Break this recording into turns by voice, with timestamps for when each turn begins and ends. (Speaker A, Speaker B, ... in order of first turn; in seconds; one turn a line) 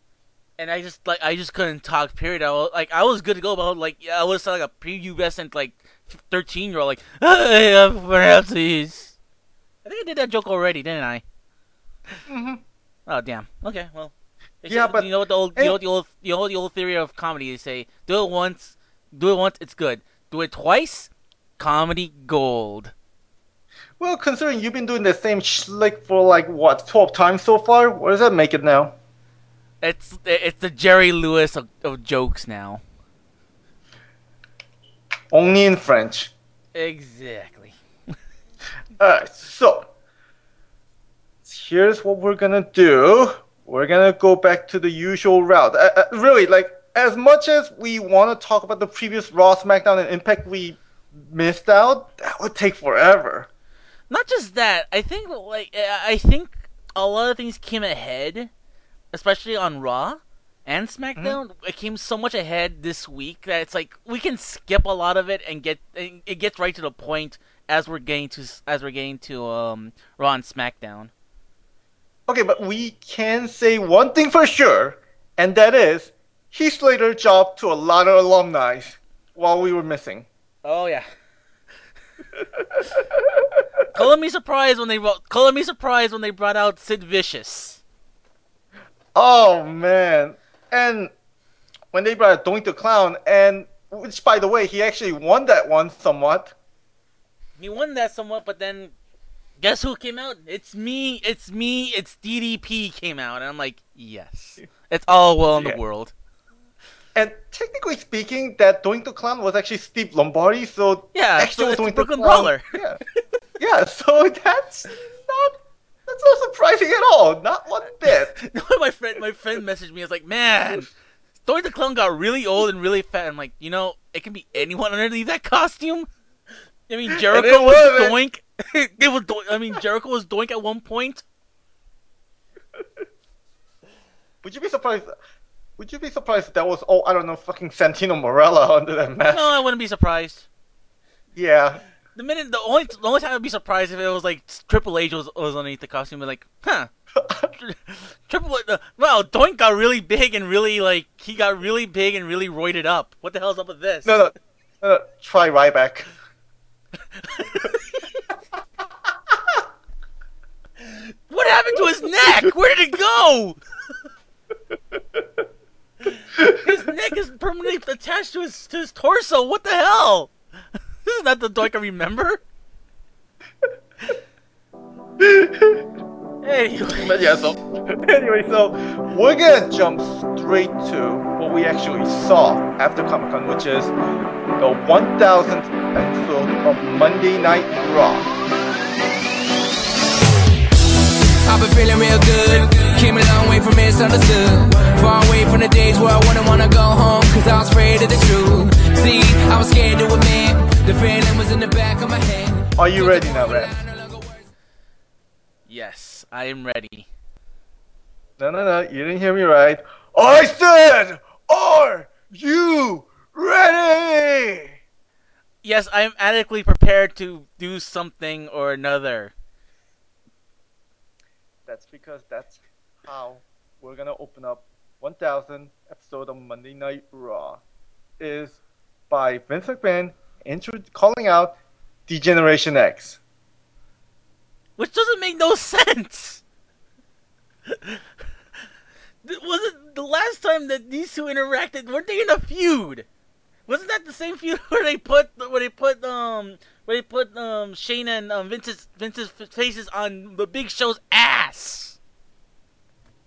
Speaker A: 0.6-9.2
Speaker A: 9.8-11.2
Speaker B: 12.3-12.6
Speaker A: 13.1-14.1
Speaker A: 14.6-22.9
Speaker B: 14.7-15.8
Speaker B: 24.0-28.9
Speaker A: 29.8-32.8
Speaker B: 35.3-36.3
Speaker A: 36.7-37.7
Speaker B: 39.0-39.9
Speaker B: 41.4-53.5
Speaker A: 54.1-58.5
Speaker A: 59.1-71.1
Speaker B: 72.3-80.3
Speaker A: 80.6-81.0
Speaker B: 82.9-83.6
Speaker A: 83.9-87.8
Speaker B: 89.1-91.1
Speaker B: 91.9-96.5
Speaker A: 97.6-98.9
Speaker A: 99.6-106.1
Speaker B: 105.5-105.8
Speaker B: 107.1-113.0
Speaker A: 111.1-112.7
Speaker B: 113.6-118.4
Speaker A: 118.0-120.9
Speaker A: 121.5-126.1
Speaker A: 126.9-131.2
Speaker B: 127.1-128.1
Speaker B: 134.4-135.1
Speaker B: 135.8-139.5
Speaker A: 139.3-140.5
Speaker B: 141.3-141.8
Speaker A: 142.1-146.9
Speaker B: 147.2-147.5
Speaker A: 147.5-154.2
Speaker B: 154.0-156.1
Speaker A: 157.2-157.9
Speaker A: 160.8-163.6
Speaker A: 166.1-170.3
Speaker A: 171.0-172.4
Speaker B: 175.2-175.9
Speaker A: 176.4-177.4
Speaker B: 177.0-183.9
Speaker B: 184.6-188.3
Speaker C: 191.4-204.4
Speaker B: 202.8-203.7
Speaker A: 205.7-207.1
Speaker B: 208.4-214.8
Speaker A: 215.6-219.3
Speaker B: 221.7-227.6
Speaker B: 228.2-228.6
Speaker B: 229.1-231.5
Speaker B: 232.1-233.2
Speaker A: 234.8-236.4
Speaker A: 237.7-238.0
Speaker A: 239.2-243.1
Speaker A: 243.7-252.0